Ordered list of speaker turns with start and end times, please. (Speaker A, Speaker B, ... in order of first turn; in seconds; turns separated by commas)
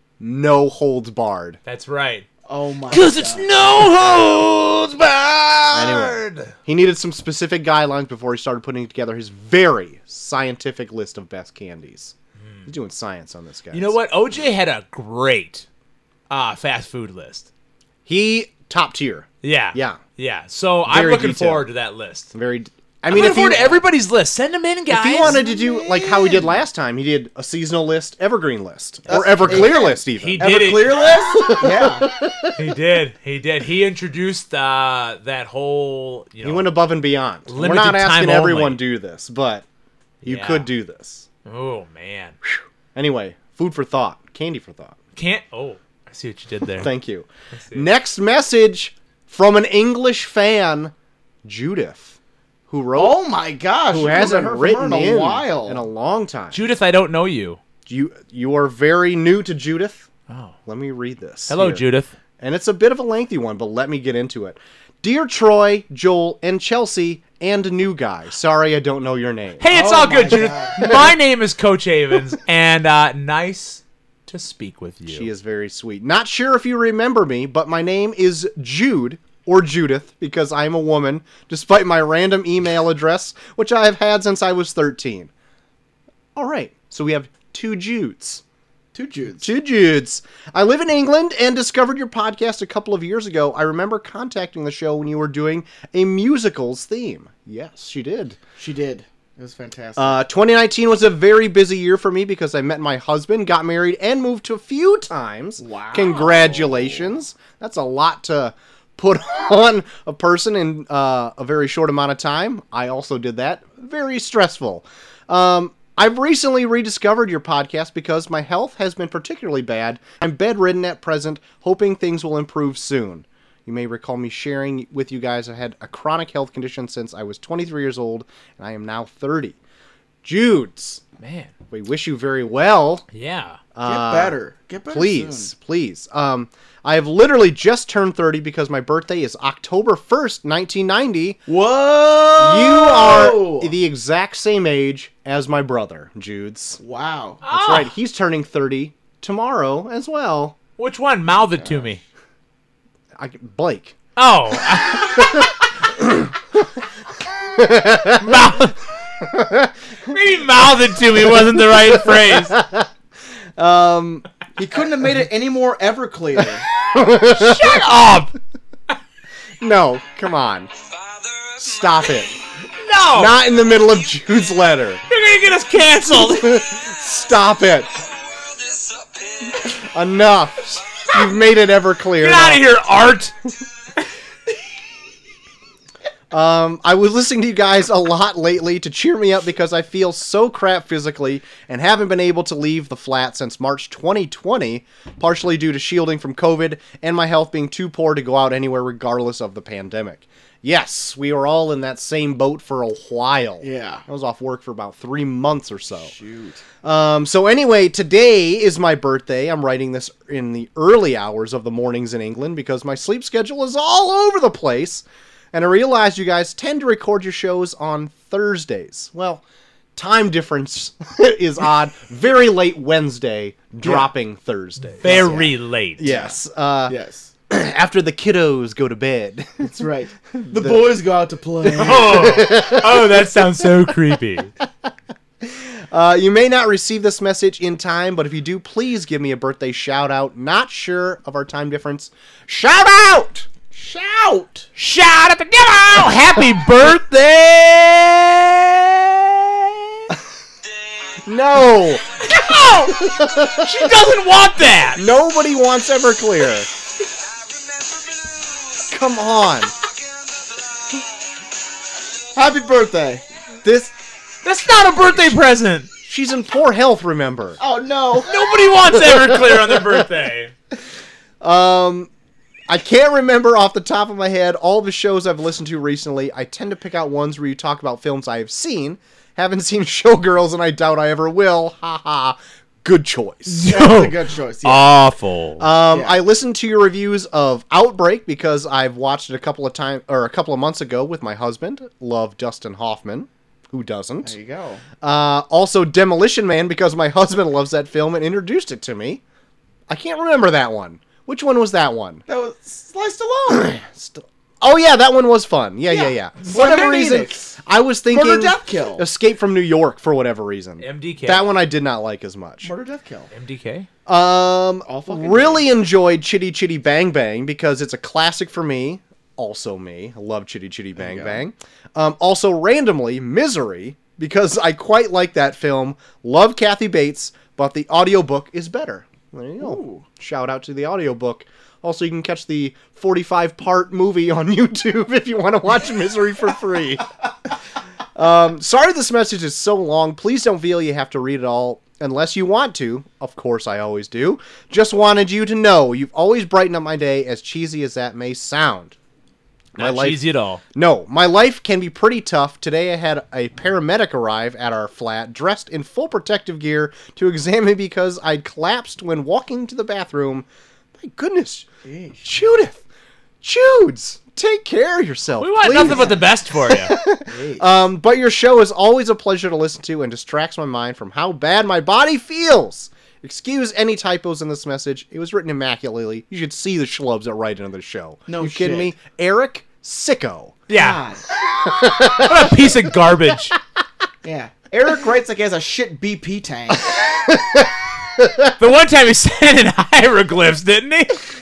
Speaker A: 0.2-1.6, Speaker B: 1.6-2.2, Speaker C: 2.5-3.5, Speaker B: 2.9-6.5, Speaker A: 5.7-12.1, Speaker A: 12.7-13.9, Speaker B: 13.7-15.7, Speaker B: 16.3-17.5, Speaker A: 18.1-20.0, Speaker B: 19.4-22.3, Speaker A: 20.9-21.7, Speaker A: 22.3-23.8, Speaker B: 23.1-25.4, Speaker A: 24.9-30.5, Speaker C: 25.2-26.5, Speaker C: 29.1-32.1, Speaker B: 29.4-31.1, Speaker A: 31.3-32.7, Speaker B: 32.5-36.7, Speaker A: 36.4-39.6, Speaker B: 37.5-38.8, Speaker B: 40.2-40.7, Speaker A: 40.2-41.3, Speaker B: 41.4-42.4, Speaker A: 42.5-45.0, Speaker B: 45.1-46.9, Speaker A: 46.8-50.9, Speaker B: 47.5-47.9, Speaker A: 51.4-52.1, Speaker A: 52.7-53.2, Speaker C: 53.0-55.8, Speaker A: 53.9-56.6, Speaker B: 56.5-57.6, Speaker A: 57.9-60.1, Speaker B: 60.3-60.5, Speaker A: 60.6-61.8, Speaker B: 61.5-62.1, Speaker A: 62.4-69.6, Speaker B: 69.6-75.3, Speaker C: 69.7-70.9, Speaker A: 70.8-71.1, Speaker A: 75.1-85.3, Speaker A: 86.3-88.4, Speaker C: 88.9-89.5, Speaker A: 89.4-98.4, Speaker C: 98.6-100.2, Speaker A: 100.0-129.6, Speaker C: 105.6-107.1, Speaker A: 130.2-131.0, Speaker B: 131.2-131.5, Speaker A: 131.7-133.0, Speaker B: 133.1-133.6, Speaker A: 133.7-134.3, Speaker C: 133.8-135.5, Speaker A: 134.9-141.4, Speaker C: 141.5-143.7, Speaker A: 142.4-146.8, Speaker C: 146.8-147.4, Speaker B: 147.4-147.9, Speaker A: 147.5-150.6, Speaker B: 150.8-152.0, Speaker A: 153.2-153.9, Speaker B: 154.2-155.6, Speaker A: 155.0-156.6, Speaker A: 157.5-158.6, Speaker B: 158.1-158.8, Speaker A: 159.2-160.1, Speaker B: 160.1-162.5, Speaker A: 161.2-162.9, Speaker A: 163.6-164.3, Speaker C: 164.6-166.6, Speaker A: 166.9-167.9, Speaker B: 167.2-168.3, Speaker A: 169.6-170.7, Speaker A: 171.5-172.3, Speaker B: 172.8-173.3, Speaker A: 173.1-175.0, Speaker B: 175.1-176.6, Speaker A: 176.1-177.9, Speaker A: 179.5-182.6, Speaker B: 182.2-183.3, Speaker A: 186.3-206.1, Speaker C: 203.6-204.0, Speaker C: 206.0-206.6, Speaker A: 206.8-219.4, Speaker A: 219.9-225.4, Speaker C: 223.8-224.1, Speaker B: 225.0-226.0, Speaker C: 225.0-226.4, Speaker A: 226.0-226.9, Speaker C: 226.9-227.3, Speaker A: 227.5-229.7, Speaker C: 229.6-232.5, Speaker A: 230.4-230.9, Speaker B: 231.7-234.5, Speaker A: 232.1-233.4, Speaker A: 235.4-243.5, Speaker C: 243.7-244.7, Speaker B: 244.8-249.9, Speaker A: 251.2-252.1, Speaker B: 252.2-255.0, Speaker A: 252.9-254.0, Speaker A: 254.9-256.7, Speaker A: 258.9-259.7, Speaker C: 262.3-263.2, Speaker A: 263.6-263.9, Speaker B: 264.4-265.9, Speaker A: 266.0-267.6, Speaker C: 267.6-268.3, Speaker B: 268.3-270.5, Speaker A: 268.9-270.0, Speaker A: 271.4-272.1, Speaker A: 272.7-283.7, Speaker B: 283.5-285.6, Speaker C: 283.6-284.9, Speaker A: 285.6-294.3, Speaker C: 285.9-286.2, Speaker C: 294.2-294.8, Speaker A: 295.0-299.2, Speaker A: 299.9-302.2, Speaker C: 302.3-303.8, Speaker A: 303.5-312.7, Speaker C: 305.9-307.6, Speaker C: 308.1-309.0, Speaker B: 310.8-311.5, Speaker C: 312.6-313.3, Speaker B: 313.3-313.9, Speaker A: 314.1-337.1, Speaker C: 314.9-315.6, Speaker C: 321.0-321.4, Speaker C: 329.6-330.0, Speaker A: 338.1-348.9, Speaker A: 349.8-350.2, Speaker B: 349.8-350.6, Speaker A: 350.7-360.5, Speaker A: 361.0-361.7, Speaker C: 361.8-362.3, Speaker A: 362.2-362.8, Speaker A: 363.4-380.6, Speaker B: 365.4-366.9, Speaker C: 365.7-366.2, Speaker C: 367.2-367.7, Speaker C: 378.3-378.9, Speaker B: 380.7-381.0, Speaker C: 380.7-381.2, Speaker A: 381.5-382.7, Speaker B: 382.1-383.6, Speaker C: 384.2-386.9, Speaker A: 386.9-388.5, Speaker B: 388.6-391.2